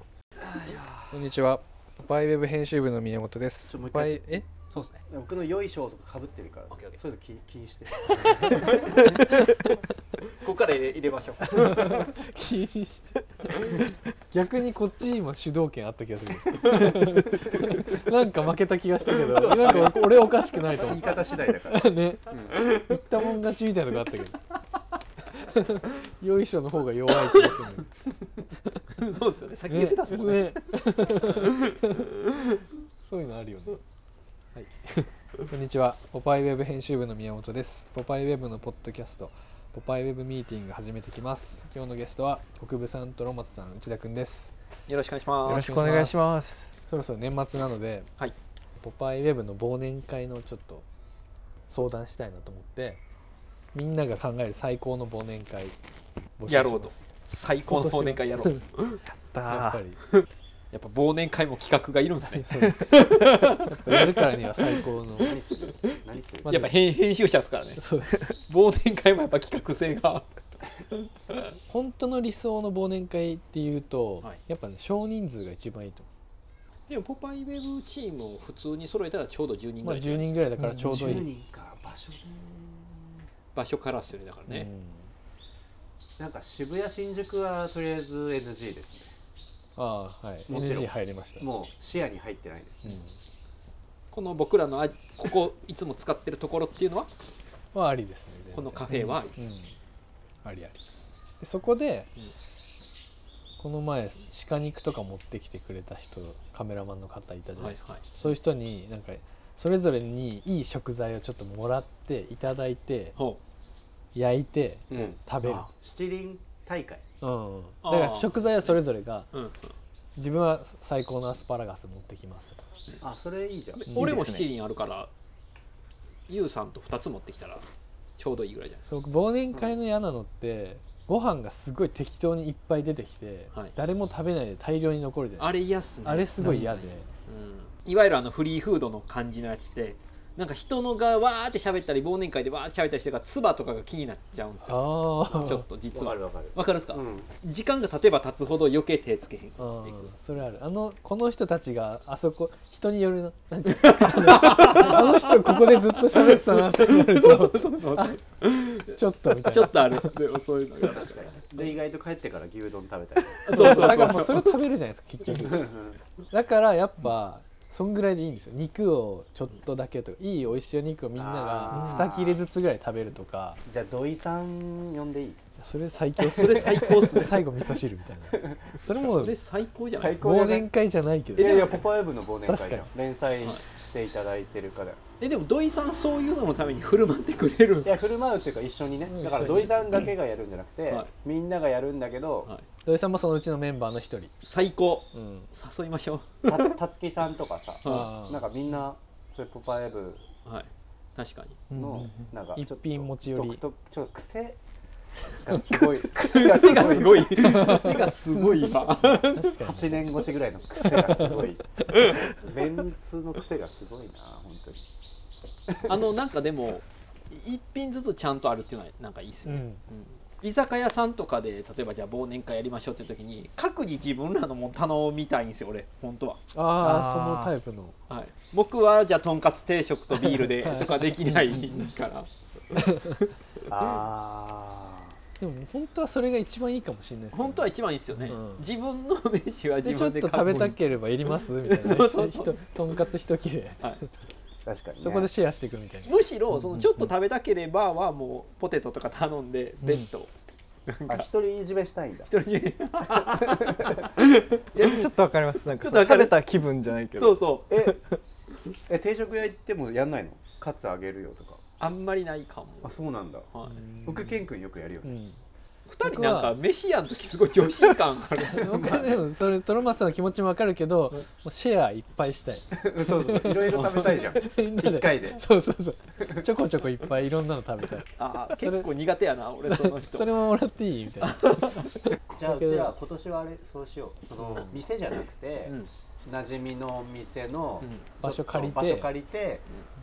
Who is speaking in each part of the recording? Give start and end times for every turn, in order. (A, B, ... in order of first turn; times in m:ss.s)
0:01.1-0:04.4 A
0:03.7-0:04.4 B
0:04.7-0:05.0 C
0:05.1-0:09.1 B
0:06.7-0:07.0 C
0:08.0-0:09.2 C
0:10.3-0:12.0 C
0:11.5-0:24.5 A
0:16.7-0:17.0 C
0:19.3-0:20.2 C
0:19.6-0:20.0 B
0:20.8-0:22.6 B
0:25.4-0:27.9 A
0:27.3-0:27.6 C
0:29.0-0:31.3 C
0:29.7-0:32.0 A
0:33.0-0:33.8 A
0:34.6-0:44.5 A
0:44.9-0:45.7 C
0:45.4-0:46.7 D
0:45.5-0:48.1 A
0:48.8-0:50.9 A
0:51.7-0:53.0 A
0:53.7-0:55.8 A
0:56.4-0:57.0 A
0:56.5-0:59.0 C
0:57.7-1:00.0 A
0:59.5-0:59.8 D
1:00.2-1:04.4 C
1:02.2-1:05.4 A
1:05.2-1:06.7 B
1:06.5-1:10.3 C
1:07.8-1:08.3 A
1:11.7-1:16.1 A
1:16.9-1:20.4 C
1:19.8-1:21.3 A
1:20.8-1:23.1 B
1:23.5-1:24.7 C
1:24.5-1:25.1 A
1:26.2-1:29.1 B
1:29.8-1:31.4 A
1:30.5-1:33.0 B
1:32.8-1:33.1 A
1:34.1-1:37.1 C
1:37.7-1:39.7 A
1:38.5-1:39.4 C
1:40.4-1:40.8 A
1:41.4-1:42.1 A
1:43.6-1:53.2 A
1:47.6-1:48.3 C
1:54.1-1:55.7 A
1:54.9-1:57.0 B
1:55.4-1:55.7 C
1:57.2-1:59.3 A
1:57.8-1:58.8 C
1:59.3-1:59.8 C
2:00.2-2:02.6 A
2:03.0-2:03.9 B
2:03.8-2:05.1 C
2:03.9-2:04.5 D
2:06.3-2:07.6 C
2:08.2-2:08.9 C
2:08.9-2:17.1 A
2:15.4-2:30.1 C
2:24.6-2:25.7 A
2:25.9-2:27.3 B
2:29.6-2:38.2 A
2:33.8-2:41.4 C
2:38.9-2:40.1 A
2:40.9-2:43.7 B
2:43.4-2:45.7 A
2:43.5-2:44.6 C
2:45.4-2:46.0 B
2:46.3-2:53.6 A
2:51.2-2:52.4 B
2:51.7-2:52.1 C
2:53.7-2:55.4 B
2:55.6-2:59.4 A
2:56.2-2:57.4 C
2:56.4-2:57.2 B
2:58.3-2:58.6 B
2:58.9-3:00.2 C
2:59.9-3:00.7 B
3:00.2-3:01.6 A
3:01.4-3:05.0 B
3:01.4-3:01.9 C
3:02.5-3:02.9 A
3:05.2-3:08.0 C
3:07.8-3:12.5 B
3:09.1-3:09.9 A
3:12.8-3:14.3 A
3:14.4-3:16.7 C
3:15.1-3:15.5 A
3:16.5-3:20.2 B
3:17.8-3:18.1 C
3:17.8-3:18.4 A
3:20.5-3:21.6 C
3:21.7-3:23.6 A
3:21.7-3:24.6 B
3:25.4-3:27.8 B
3:26.2-3:29.6 C
3:26.6-3:30.2 A
3:29.5-3:31.6 B
3:30.8-3:31.4 A
3:32.3-3:34.8 B
3:35.7-3:36.0 B
3:35.9-3:46.4 C
3:39.5-3:39.8 A
3:46.5-3:48.0 A
3:46.7-3:47.5 D
3:48.1-3:52.9 C
3:50.1-3:51.9 A
3:52.8-3:53.1 A
3:53.7-3:55.2 B
3:55.4-3:57.7 A
3:57.3-4:00.8 C
3:58.3-3:58.6 A
3:59.8-4:04.0 A
4:01.4-4:02.7 C
4:04.6-4:05.3 B
4:05.0-4:07.1 A
4:06.0-4:10.3 C
4:10.9-4:11.2 C
4:11.1-4:12.3 B
4:12.3-4:14.1 C
4:13.2-4:14.0 B
4:14.8-4:18.2 D
4:15.8-4:16.4 C
4:17.2-4:17.7 C
4:17.7-4:18.0 B
4:18.9-4:21.6 B
4:21.8-4:23.8 C
4:22.8-4:23.5 B
4:23.7-4:24.4 A
4:24.0-4:25.1 B
4:25.0-4:25.4 A
4:25.9-4:29.0 C
4:26.0-4:26.6 A
4:28.5-4:38.9 A
4:28.7-4:29.2 B
4:32.7-4:35.4 B
4:33.8-4:34.1 C
4:36.2-4:36.5 B
4:38.2-4:40.4 C
4:39.6-4:42.9 A
4:41.2-4:41.9 C
4:42.3-4:49.6 B
4:44.4-4:44.8 C
4:47.8-4:48.1 C
4:48.2-4:49.1 A